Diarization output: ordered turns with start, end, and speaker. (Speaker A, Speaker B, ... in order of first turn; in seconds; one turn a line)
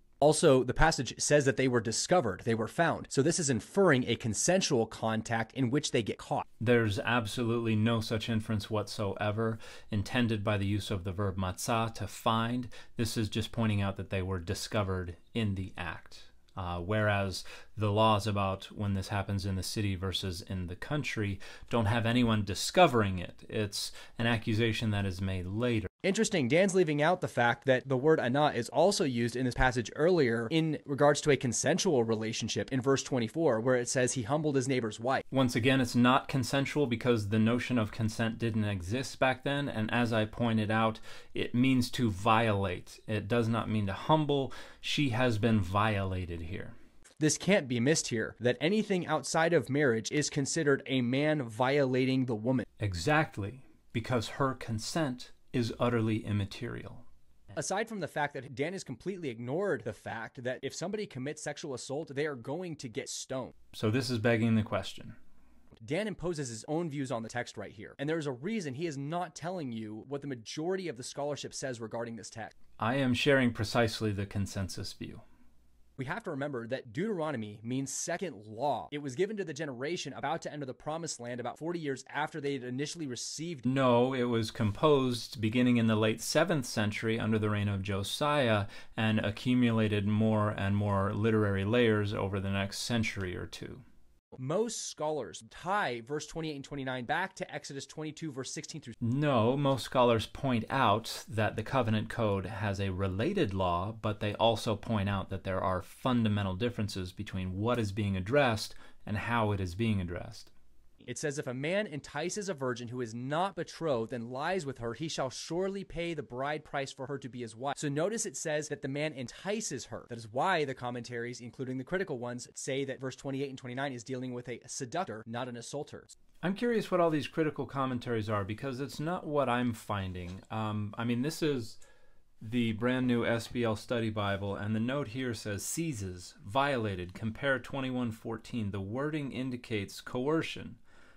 Speaker A: 0.2-6.4
Speaker B: 6.6-25.9
Speaker A: 26.0-35.2
Speaker B: 35.3-46.7
Speaker A: 47.2-52.6
Speaker B: 52.8-57.0
Speaker A: 57.5-63.5
Speaker B: 63.7-65.2
Speaker A: 65.8-72.5
Speaker B: 72.8-75.2
Speaker A: 76.0-83.7
Speaker B: 83.7-93.8
Speaker A: 94.4-99.0
Speaker B: 99.0-110.5
Speaker A: 111.0-126.1
Speaker B: 126.4-131.8
Speaker B: 132.4-140.8